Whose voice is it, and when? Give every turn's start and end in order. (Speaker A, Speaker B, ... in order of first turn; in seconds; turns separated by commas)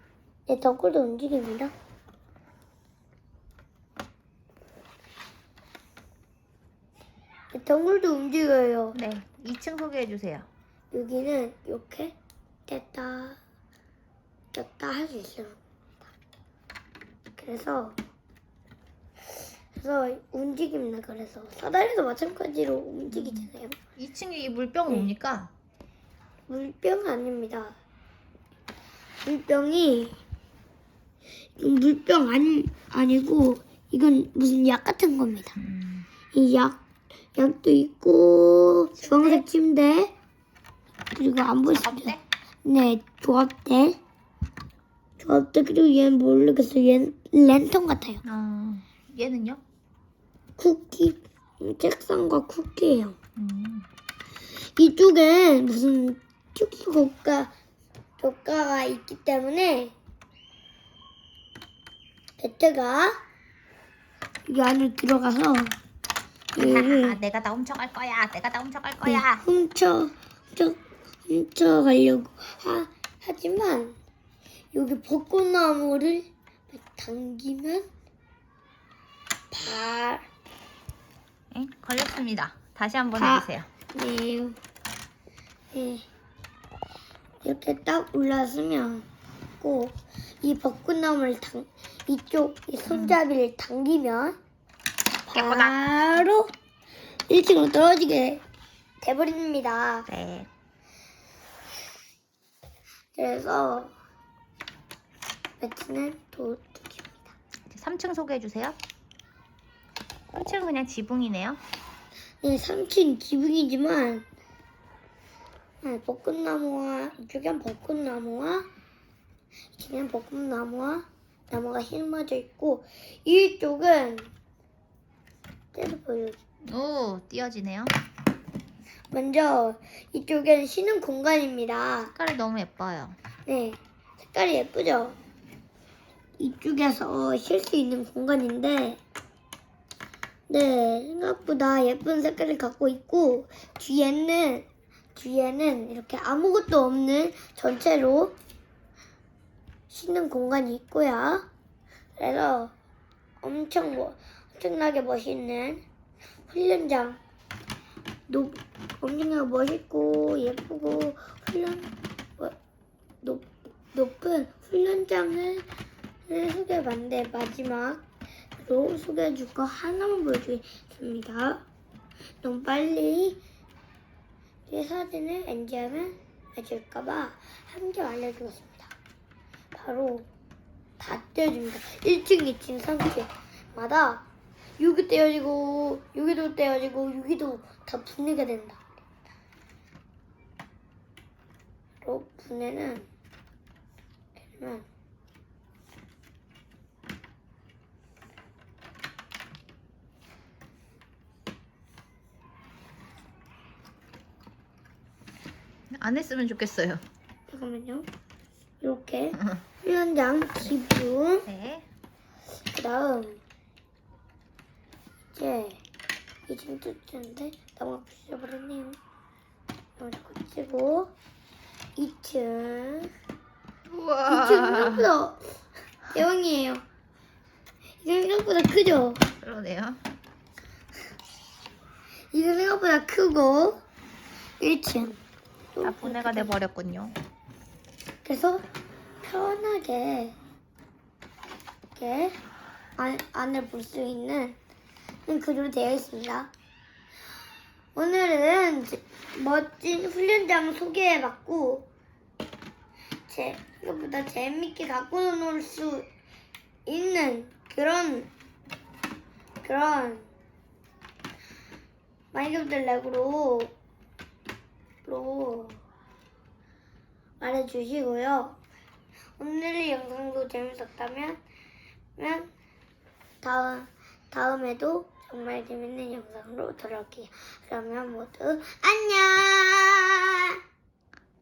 Speaker A: 0.5-1.7, Speaker A: 7.5-9.0, Speaker B: 8.9-10.5, Speaker A: 10.9-12.1, Speaker A: 12.7-13.4, Speaker A: 14.5-15.6, Speaker A: 17.4-18.0, Speaker A: 19.7-23.8, Speaker B: 23.1-25.5, Speaker A: 26.5-27.7, Speaker A: 29.2-30.2, Speaker A: 31.6-35.6, Speaker B: 35.6-36.1, Speaker A: 36.3-36.8, Speaker A: 37.3-40.1, Speaker B: 39.0-39.4, Speaker A: 41.1-44.0, Speaker B: 41.6-42.2, Speaker A: 45.2-48.2, Speaker B: 48.2-49.6, Speaker A: 50.6-53.1, Speaker B: 53.4-53.9, Speaker A: 54.8-57.5, Speaker A: 58.2-59.9, Speaker A: 62.4-63.2, Speaker A: 64.5-65.7, Speaker B: 66.5-69.4, Speaker A: 66.5-67.2, Speaker A: 69.0-73.9, Speaker A: 74.7-77.8, Speaker A: 79.5-80.2, Speaker B: 81.5-83.7, Speaker A: 83.1-84.6, Speaker A: 85.7-86.0, Speaker A: 87.4-89.0, Speaker A: 89.6-94.3, Speaker B: 92.9-93.2, Speaker A: 95.3-96.5, Speaker B: 95.3-95.8, Speaker A: 97.3-98.4, Speaker A: 99.0-100.1, Speaker B: 100.1-100.5, Speaker A: 103.1-103.9, Speaker A: 105.6-107.3, Speaker B: 107.7-108.8, Speaker B: 110.3-111.6, Speaker A: 112.4-114.2, Speaker A: 115.8-118.7, Speaker A: 119.8-124.3, Speaker A: 125.7-126.4, Speaker B: 126.6-127.9, Speaker A: 129.1-132.1, Speaker B: 132.1-133.2, Speaker A: 133.4-133.8, Speaker A: 134.3-135.2, Speaker A: 136.4-139.0, Speaker A: 140.5-148.3, Speaker A: 149.9-151.4, Speaker A: 152.2-152.7, Speaker A: 153.4-155.8, Speaker A: 156.5-157.2, Speaker A: 158.3-162.5, Speaker A: 163.2-165.7, Speaker A: 166.3-168.0, Speaker A: 168.6-171.6, Speaker A: 172.4-173.4, Speaker A: 174.7-178.9, Speaker A: 179.7-180.2, Speaker A: 181.0-184.2, Speaker A: 184.8-188.8, Speaker A: 192.0-193.1, Speaker A: 194.6-194.8, Speaker B: 205.9-207.0, Speaker A: 207.5-208.1, Speaker A: 208.8-211.4, Speaker B: 211.4-211.8, Speaker A: 212.7-213.4, Speaker A: 215.3-215.8, Speaker A: 216.5-219.0, Speaker A: 220.0-221.1, Speaker A: 221.9-223.1, Speaker B: 223.9-225.1, Speaker A: 224.3-225.5, Speaker A: 226.1-226.8, Speaker A: 228.0-229.2, Speaker B: 229.4-230.0, Speaker A: 232.3-233.8, Speaker A: 234.6-235.2, Speaker A: 235.7-236.5, Speaker B: 235.8-237.2, Speaker A: 238.2-238.6, Speaker A: 239.2-240.3, Speaker A: 241.9-242.3, Speaker A: 243.0-244.6, Speaker A: 245.3-246.5, Speaker A: 247.9-251.8, Speaker A: 253.3-256.1, Speaker A: 256.9-258.3, Speaker A: 259.6-260.2, Speaker A: 262.3-263.7, Speaker A: 265.0-265.8, Speaker A: 267.4-268.6, Speaker A: 269.4-271.4, Speaker A: 272.2-272.5, Speaker A: 273.4-280.6